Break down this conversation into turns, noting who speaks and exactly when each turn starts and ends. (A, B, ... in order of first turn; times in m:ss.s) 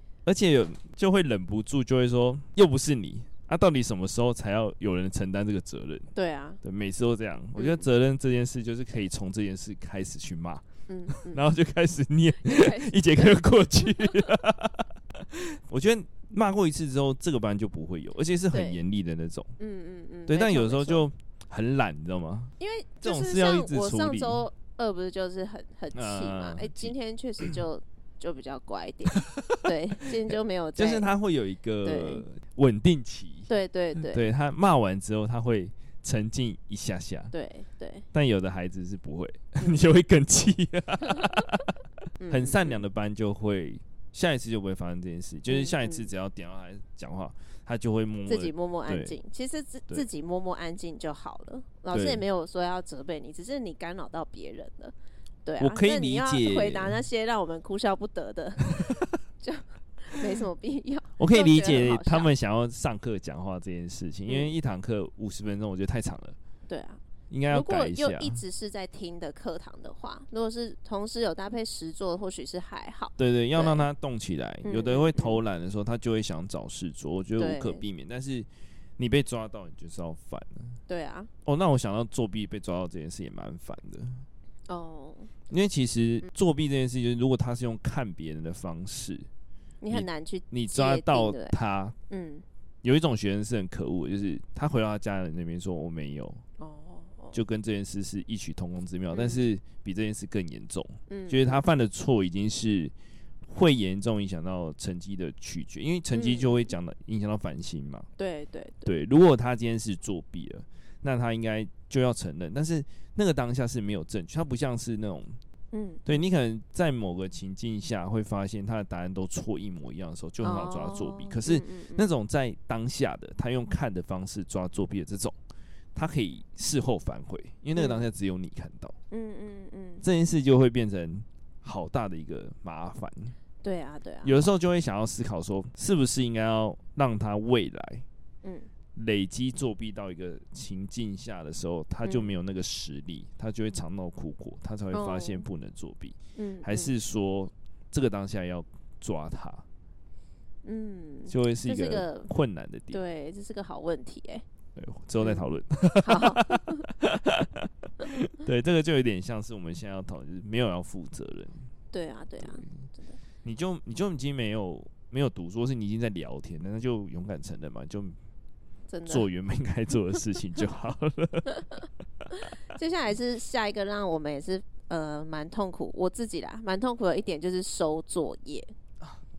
0:00.2-0:06.1 A
0:06.2-0:06.6 B
0:06.6-0:19.5 A
0:07.6-0:07.9 B
0:10.9-0:11.4 B
0:12.4-0:14.3 B
0:18.5-0:18.8 B
0:19.6-0:21.0 B
0:20.3-0:24.4 A
0:22.6-0:31.1 B
0:25.9-0:27.5 A
0:29.1-0:29.7 A
0:30.3-0:37.3 A
0:31.8-0:32.2 B
0:33.5-0:34.2 B
0:37.3-0:38.1 B
0:38.1-0:41.7 A
0:41.1-0:41.4 B
0:42.2-0:42.8 B
0:42.3-0:49.2 A
0:45.5-0:46.1 B
0:48.3-0:54.9 B
0:51.9-0:52.2 A
0:55.4-1:02.3 B
0:55.6-0:57.0 A
1:01.2-1:06.4 A
1:04.3-1:04.5 B
1:06.7-1:13.8 B
1:07.3-1:08.4 A
1:13.2-1:20.8 A
1:14.6-1:15.4 B
1:17.4-1:17.8 B
1:20.9-1:21.3 B
1:21.4-1:24.2 A
1:24.7-1:25.3 B
1:25.5-1:29.3 A
1:29.8-1:31.6 B
1:29.9-1:32.0 A
1:32.1-1:32.4 B
1:32.8-1:36.4 A
1:36.6-1:37.4 B
1:37.3-1:42.9 A
1:39.1-1:39.5 B
1:41.1-1:41.6 B
1:43.5-1:48.1 A
1:46.1-1:46.7 B
1:48.2-1:48.9 B
1:48.8-1:55.4 A
1:55.7-1:56.1 B
1:56.1-2:05.4 A
2:00.4-2:02.1 B
2:06.0-2:09.0 A
2:07.8-2:08.1 B
2:09.1-2:10.0 B
2:10.0-2:13.4 A
2:13.6-2:14.4 B
2:14.2-2:18.0 A
2:19.0-2:29.6 A
2:22.0-2:22.3 B
2:24.9-2:25.4 B
2:26.4-2:26.9 B
2:30.6-2:32.3 B
2:31.3-2:33.0 A
2:32.9-2:34.4 B
2:34.8-2:41.6 A
2:35.2-2:35.5 B
2:36.0-2:36.9 B
2:41.9-2:43.2 B
2:43.4-2:48.2 A
2:48.9-2:49.3 B
2:49.1-2:51.6 A
2:51.6-2:58.7 B